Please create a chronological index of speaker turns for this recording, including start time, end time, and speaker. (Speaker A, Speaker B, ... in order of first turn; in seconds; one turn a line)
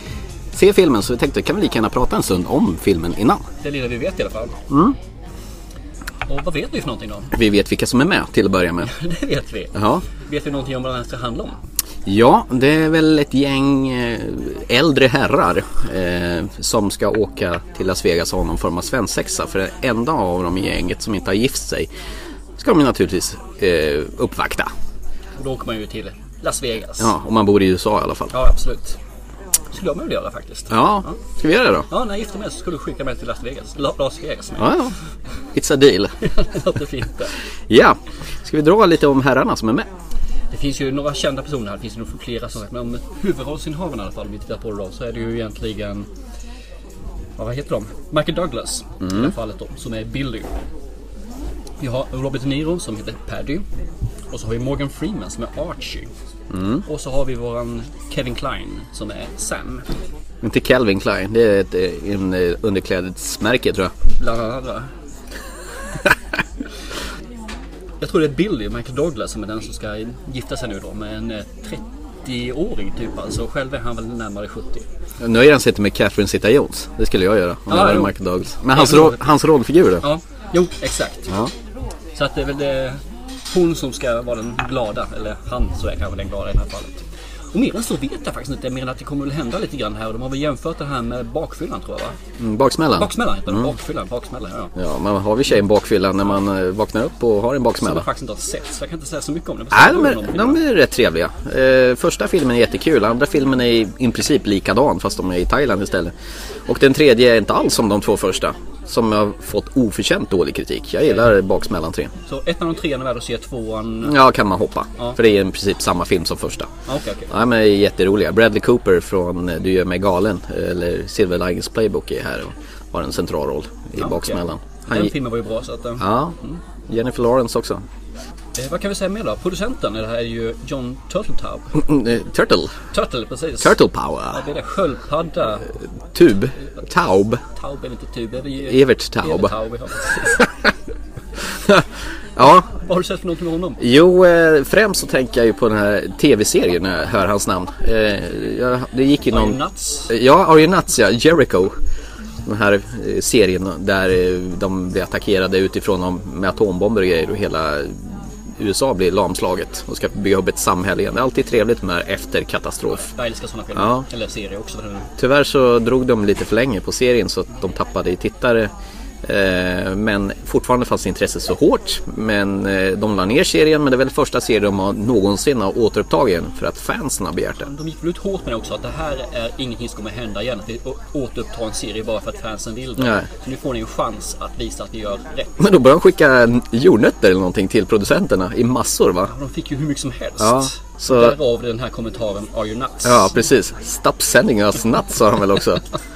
Speaker A: 0.5-3.4
Speaker B: 3.6-4.6
Speaker A: 4.7-5.0
Speaker B: 6.3-7.3
Speaker A: 7.3-8.9
Speaker B: 8.8-11.6
Speaker A: 9.8-10.0
Speaker A: 12.1-21.9
Speaker A: 22.6-24.7
Speaker B: 25.4-27.1
Speaker A: 27.0-28.4
Speaker B: 28.3-29.0
Speaker B: 29.7-31.2
Speaker A: 30.7-31.9
Speaker B: 31.9-34.9
Speaker A: 34.6-34.9
Speaker A: 35.5-36.2
Speaker B: 36.2-37.3
Speaker A: 37.7-39.9
Speaker B: 40.5-46.1
Speaker B: 47.4-50.5
Speaker A: 49.0-49.3
Speaker B: 51.8-53.6
Speaker B: 54.3-56.1
Speaker A: 56.5-56.8
Speaker B: 56.9-59.9
Speaker A: 60.4-63.9
Speaker B: 64.2-64.9
Speaker B: 68.0-74.8
Speaker A: 75.2-80.1
Speaker B: 77.7-78.2
Speaker B: 78.7-79.2
Speaker B: 80.0-81.3
Speaker B: 82.2-92.2
Speaker A: 92.4-93.6
Speaker B: 92.9-94.7
Speaker A: 94.8-98.0
Speaker B: 97.8-100.6
Speaker A: 99.7-106.1
Speaker A: 106.7-112.1
Speaker B: 112.3-114.2
Speaker A: 114.0-116.7
Speaker B: 116.9-117.3
Speaker A: 117.3-125.2
Speaker B: 124.0-126.6
Speaker A: 126.0-126.4
Speaker A: 126.9-127.8
Speaker B: 128.6-131.8
Speaker A: 131.7-132.7
Speaker B: 132.9-133.8
Speaker A: 133.6-134.4
Speaker B: 134.3-135.7
Speaker A: 136.1-137.4
Speaker B: 137.6-140.5
Speaker A: 138.6-139.6
Speaker A: 142.4-142.7
Speaker B: 142.4-143.8
Speaker A: 143.8-151.7
Speaker B: 149.3-150.1
Speaker A: 152.4-163.1
Speaker B: 162.9-165.1
Speaker A: 163.8-164.0
Speaker A: 165.2-168.7
Speaker A: 169.2-177.7
Speaker B: 177.6-185.5
Speaker A: 183.0-183.3
Speaker A: 185.6-189.3
Speaker B: 189.3-193.3
Speaker A: 190.4-191.4
Speaker A: 193.0-195.8